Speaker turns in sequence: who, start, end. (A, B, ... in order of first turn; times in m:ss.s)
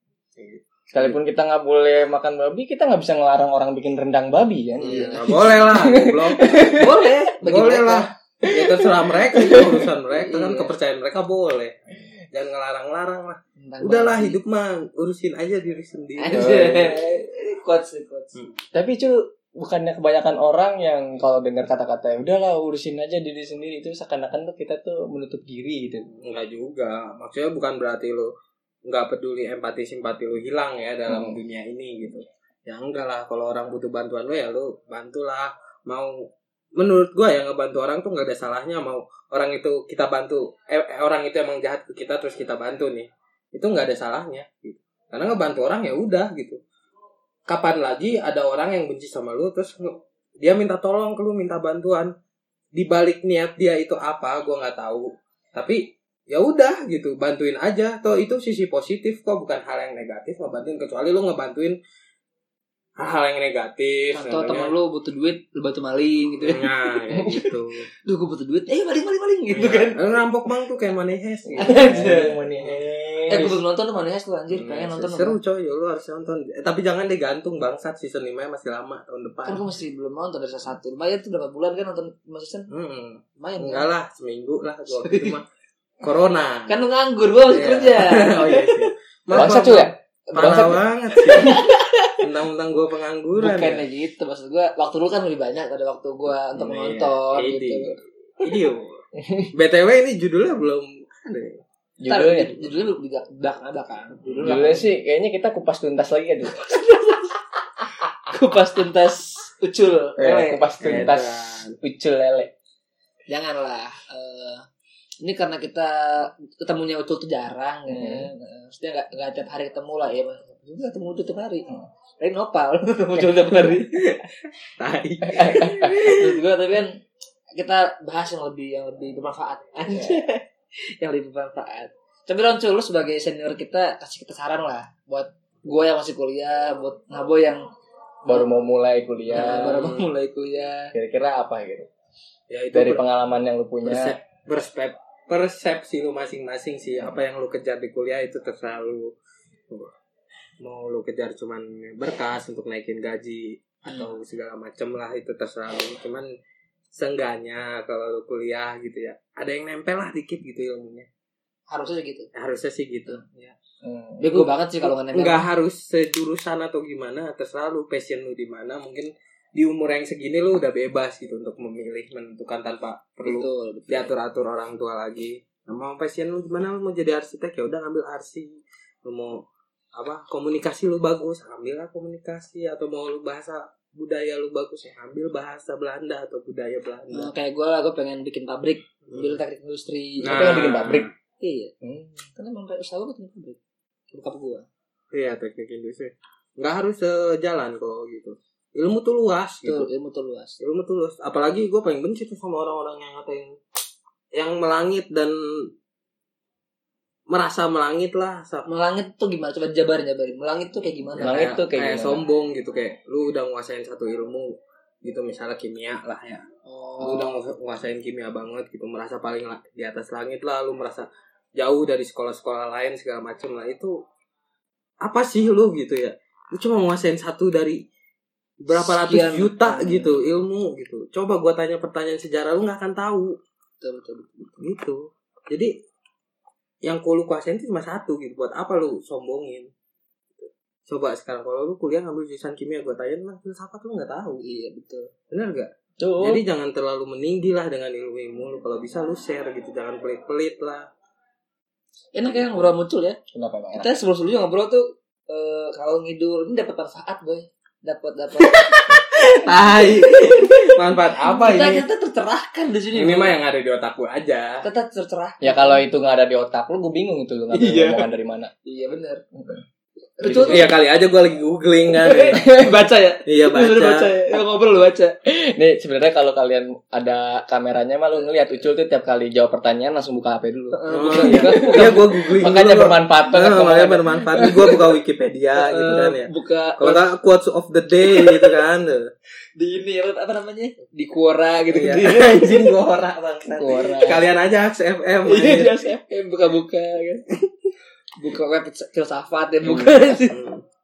0:00.4-0:00.6 A
0:00.9-0:06.9 B
0:04.8-0:05.4 C
0:04.8-0:06.8 A
0:06.7-0:08.1 C
0:07.4-0:11.8 A
0:08.4-0:09.9 B
0:10.1-0:10.7 C
0:12.3-0:17.0 A
0:13.6-0:14.4 C
0:16.2-0:18.4 C
0:16.4-0:16.6 B
0:18.7-0:26.1 B
0:26.2-0:28.3 A
0:28.8-0:46.6 A
0:31.1-0:31.4 B
0:47.5-0:52.1 A
0:52.7-1:01.8 A
1:03.0-1:04.7 A
1:04.1-1:06.7 C
1:06.4-1:07.9 A
1:08.0-1:10.0 C
1:09.5-1:12.8 A
1:11.5-1:13.6 B
1:11.6-1:12.4 C
1:13.3-1:15.4 C
1:14.5-1:19.6 A
1:19.4-1:22.7 C
1:22.7-1:25.4 A
1:23.4-1:23.9 C
1:24.9-1:25.4 C
1:26.0-1:26.8 A
1:26.7-1:28.9 C
1:27.4-1:31.6 A
1:29.3-1:29.9 B
1:30.3-1:32.2 C
1:32.2-1:33.8 A
1:33.4-1:38.0 C
1:36.6-1:39.0 A
1:39.2-1:39.5 B
1:39.5-1:41.6 A
1:42.0-1:42.6 B
1:42.0-1:44.9 C
1:44.4-1:46.8 B
1:46.6-1:47.3 C
1:48.2-1:50.7 C
1:50.2-1:52.5 B
1:50.8-1:51.8 A
1:53.3-1:54.6 C
1:55.2-2:01.7 C
1:57.9-1:58.3 B
2:02.2-2:04.0 C
2:03.7-2:04.3 A
2:04.8-2:06.3 A
2:05.3-2:05.9 B
2:05.8-2:07.0 C
2:07.6-2:17.7 C
2:09.9-2:10.2 B
2:18.2-2:19.9 B
2:19.3-2:20.9 C
2:19.5-2:20.0 A
2:20.9-2:21.9 B
2:22.5-2:23.0 A
2:22.7-2:24.1 B
2:23.8-2:29.1 A
2:30.6-2:36.3 A
2:36.9-2:41.1 A
2:41.7-2:42.3 C
2:42.3-2:43.5 A
2:43.8-2:44.4 B
2:44.2-2:45.4 C
2:44.4-2:59.4 A
2:53.2-2:54.1 C
3:00.0-3:07.3 A
3:07.1-3:10.5 C
3:10.2-3:11.1 A
3:10.2-3:11.1 B
3:11.4-3:11.7 C
3:11.8-3:12.2 B
3:12.3-3:13.6 C
3:14.1-3:14.7 C
3:15.1-3:19.9 A
3:19.6-3:20.6 C
3:20.6-3:23.6 A
3:24.3-3:25.7 A
3:27.3-3:28.7 A
3:28.6-3:31.5 C
3:31.2-3:32.2 B
3:31.2-3:36.4 A
3:36.6-3:37.4 C
3:37.0-3:44.0 A
3:45.0-3:47.8 A
3:48.6-3:53.3 A
3:48.7-3:50.2 C
3:53.8-3:54.6 C
3:54.6-3:55.7 A
3:56.8-3:59.7 A
4:00.4-4:04.4 A
4:04.4-4:05.1 C
4:05.3-4:10.9 A
4:06.0-4:06.4 B
4:12.1-4:13.2 C
4:13.3-4:14.0 B
4:13.8-4:23.4 C
4:19.1-4:21.8 A
4:22.9-4:24.6 A
4:24.6-4:25.8 C
4:25.4-4:28.5 B
4:27.5-4:28.0 C
4:28.6-4:29.2 C
4:30.2-4:30.7 C
4:30.2-4:30.7 B
4:30.4-4:32.5 A
4:32.0-4:35.1 C
4:33.2-4:34.2 A
4:35.2-4:44.7 B
4:40.7-4:42.3 C
4:40.9-4:49.1 A
4:45.6-4:47.0 C
4:48.0-4:48.5 C
4:49.6-4:52.7 C
4:51.7-4:55.7 A
4:53.6-4:54.3 B
4:55.2-4:57.2 C
4:58.2-5:00.4 C
4:59.7-5:00.6 A